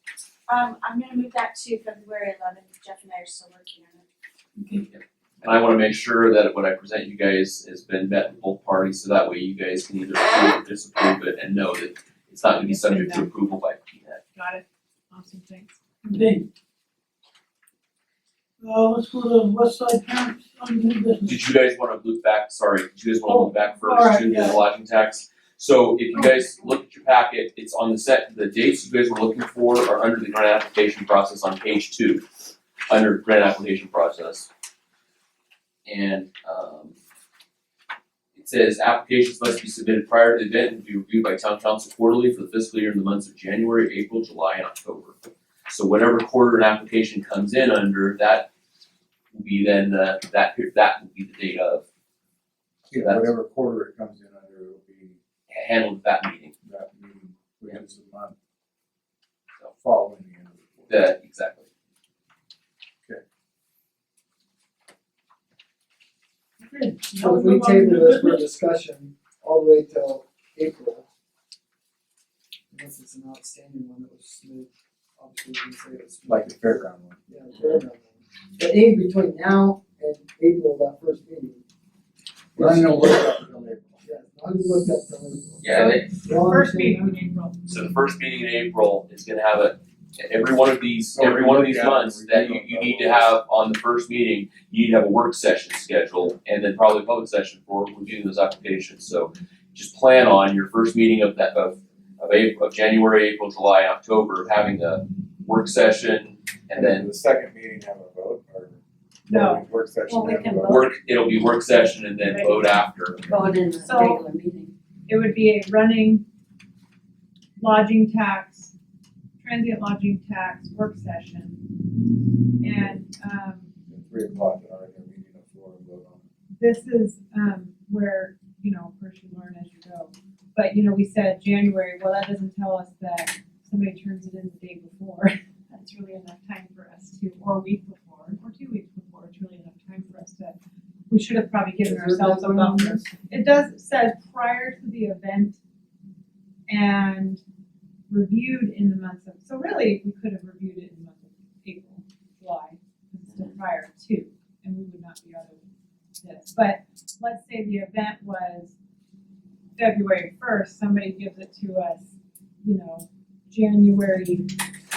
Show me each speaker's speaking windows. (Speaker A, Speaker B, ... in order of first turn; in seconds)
Speaker A: 0.5-4.0
Speaker B: 4.5-4.8, 16.0-16.5, 18.6-21.4, 23.2-24.6, 26.1-26.4, 66.6-68.4
Speaker C: 4.9-14.2, 21.3-32.2, 32.9-34.5, 35.9-36.9, 38.4-48.5, 49.3-51.8, 53.0-53.3, 55.5-56.5, 60.9-61.6, 85.6-86.1, 87.7-107.1, 110.6-113.2
Speaker D: 12.6-13.3, 14.3-15.8, 85.7-87.6, 109.3-109.6, 112.2-112.7, 113.8-114.2, 115.1-116.2, 117.6-118.7, 119.4-121.6, 122.6-123.6, 126.6-140.6, 141.1-145.6, 146.7-147.4, 148.1-155.6, 156.2-158.7, 159.8-162.1, 162.6-164.5
Speaker E: 52.9-55.2, 56.6-58.3, 59.7-61.0, 76.2-77.2, 82.5-84.0, 91.1-93.3, 106.7-110.8, 123.9-126.2
Speaker F: 67.2-71.0, 72.7-76.6, 77.3-81.6, 82.5-83.5, 84.0-87.1, 141.8-143.0
Speaker G: 110.1-110.8, 113.2-114.7